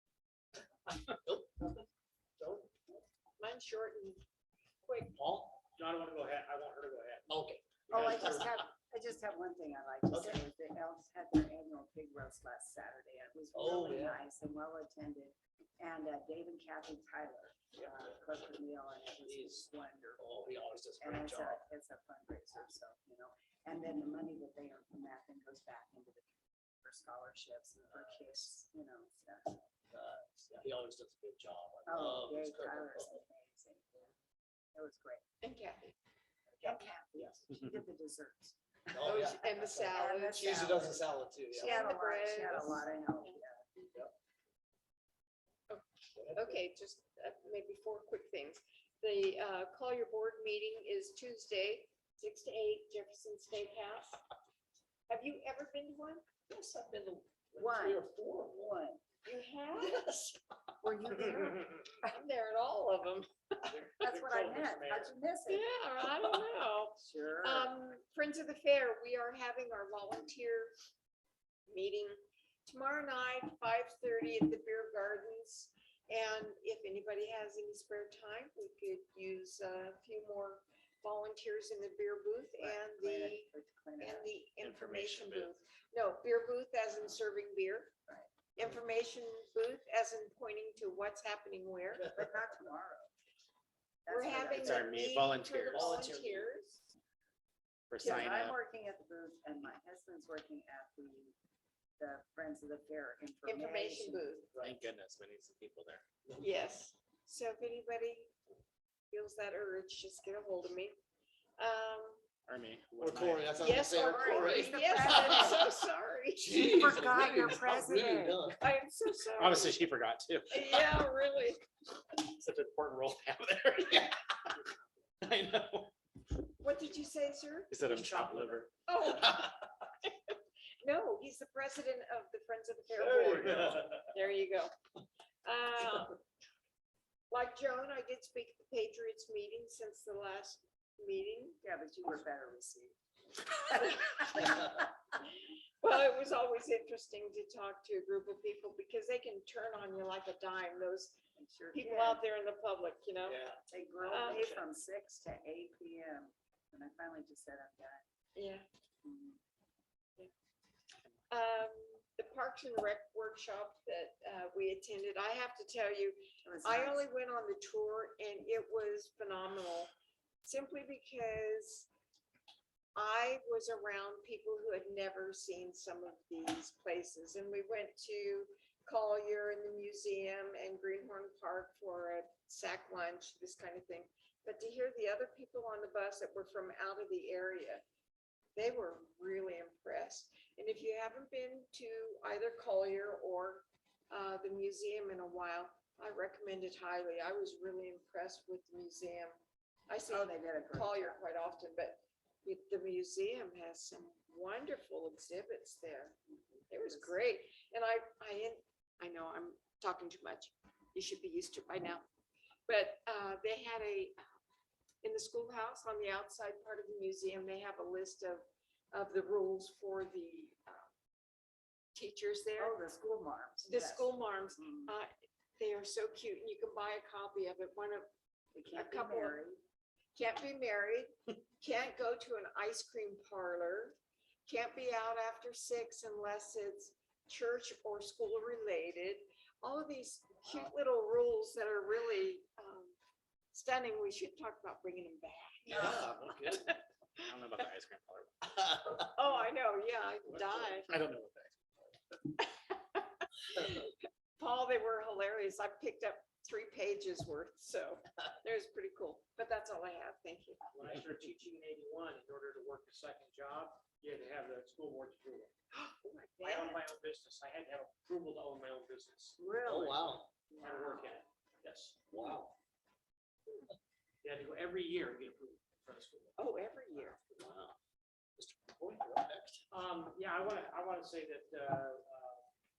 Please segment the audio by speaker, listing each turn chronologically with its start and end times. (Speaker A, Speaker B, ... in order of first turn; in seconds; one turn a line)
Speaker A: 0.9-1.9
Speaker A: 2.4-2.7
Speaker B: 3.4-4.2
Speaker B: 4.8-5.2
Speaker A: 5.2-5.6
Speaker C: 5.8-7.4
Speaker A: 7.3-8.6
Speaker C: 7.9-8.3
Speaker D: 7.9-20.2
Speaker A: 10.1-10.4
Speaker A: 13.5-14.2
Speaker A: 19.2-21.6
Speaker D: 21.0-29.7
Speaker A: 29.9-33.2
Speaker D: 31.9-34.0
Speaker D: 34.7-35.2
Speaker B: 35.4-35.9
Speaker A: 36.5-37.4
Speaker D: 36.6-43.7
Speaker A: 39.0-39.4
Speaker B: 39.0-40.6
Speaker A: 40.3-41.8
Speaker B: 41.5-43.4
Speaker B: 45.7-54.2
Speaker A: 46.1-46.6
Speaker B: 55.1-56.2
Speaker A: 56.5-58.7
Speaker D: 57.6-59.0
Speaker B: 59.2-60.0
Speaker A: 59.8-60.4
Speaker D: 60.8-61.8
Speaker B: 61.9-63.3
Speaker C: 63.7-65.1
Speaker D: 64.0-65.7
Speaker B: 65.5-70.7
Speaker D: 67.0-67.7
Speaker B: 71.7-83.5
Speaker D: 82.6-84.3
Speaker B: 84.0-87.9
Speaker E: 84.6-85.5
Speaker B: 88.5-92.1
Speaker D: 92.0-93.1
Speaker D: 94.0-95.2
Speaker B: 94.1-96.8
Speaker E: 94.6-95.9
Speaker A: 95.7-96.5
Speaker E: 97.9-98.6
Speaker D: 98.0-101.3
Speaker D: 102.0-104.3
Speaker B: 103.4-104.5
Speaker A: 104.5-104.8
Speaker E: 104.6-106.0
Speaker A: 106.2-106.5
Speaker B: 106.4-108.3
Speaker B: 109.1-110.9
Speaker B: 111.6-112.2
Speaker E: 112.5-113.8
Speaker A: 113.0-115.4
Speaker B: 113.6-116.6
Speaker D: 113.8-115.7
Speaker A: 116.4-118.6
Speaker D: 116.5-118.5
Speaker B: 118.6-119.8
Speaker E: 119.4-120.9
Speaker B: 120.5-121.6
Speaker E: 122.1-124.2
Speaker E: 125.2-125.9
Speaker B: 126.6-127.7
Speaker E: 127.7-128.7
Speaker A: 127.9-128.7
Speaker B: 128.8-129.6
Speaker B: 130.8-134.7
Speaker A: 132.9-134.1
Speaker B: 135.4-136.2
Speaker B: 137.3-141.6
Speaker D: 141.6-142.9
Speaker B: 143.7-144.7
Speaker D: 143.8-144.4
Speaker B: 145.8-151.2
Speaker D: 151.3-152.2
Speaker B: 151.7-153.4
Speaker A: 153.2-154.5
Speaker D: 153.7-158.0
Speaker B: 154.0-154.6
Speaker B: 158.3-158.6
Speaker D: 159.0-159.4
Speaker B: 161.3-169.9
Speaker D: 166.4-167.1
Speaker B: 170.4-171.9
Speaker B: 172.9-187.8
Speaker B: 188.6-199.3
Speaker B: 199.9-206.2
Speaker D: 200.1-201.2
Speaker D: 206.6-207.2
Speaker B: 206.7-212.0
Speaker B: 212.7-214.2
Speaker B: 215.0-220.9
Speaker B: 221.9-222.8
Speaker D: 222.6-224.9
Speaker B: 223.6-228.1
Speaker D: 228.5-229.6
Speaker B: 228.7-229.4
Speaker B: 230.1-242.9
Speaker B: 243.5-246.8
Speaker A: 245.7-246.7
Speaker E: 247.2-248.5
Speaker B: 249.0-250.9
Speaker A: 250.3-250.6
Speaker E: 250.9-251.5
Speaker B: 252.4-260.6
Speaker C: 260.7-265.5
Speaker B: 265.7-266.8
Speaker C: 266.4-269.4
Speaker D: 269.4-270.9
Speaker A: 269.6-270.3
Speaker C: 270.6-272.0
Speaker A: 272.1-272.5
Speaker C: 274.2-277.7
Speaker B: 276.4-277.2
Speaker A: 278.4-279.6
Speaker C: 279.7-282.4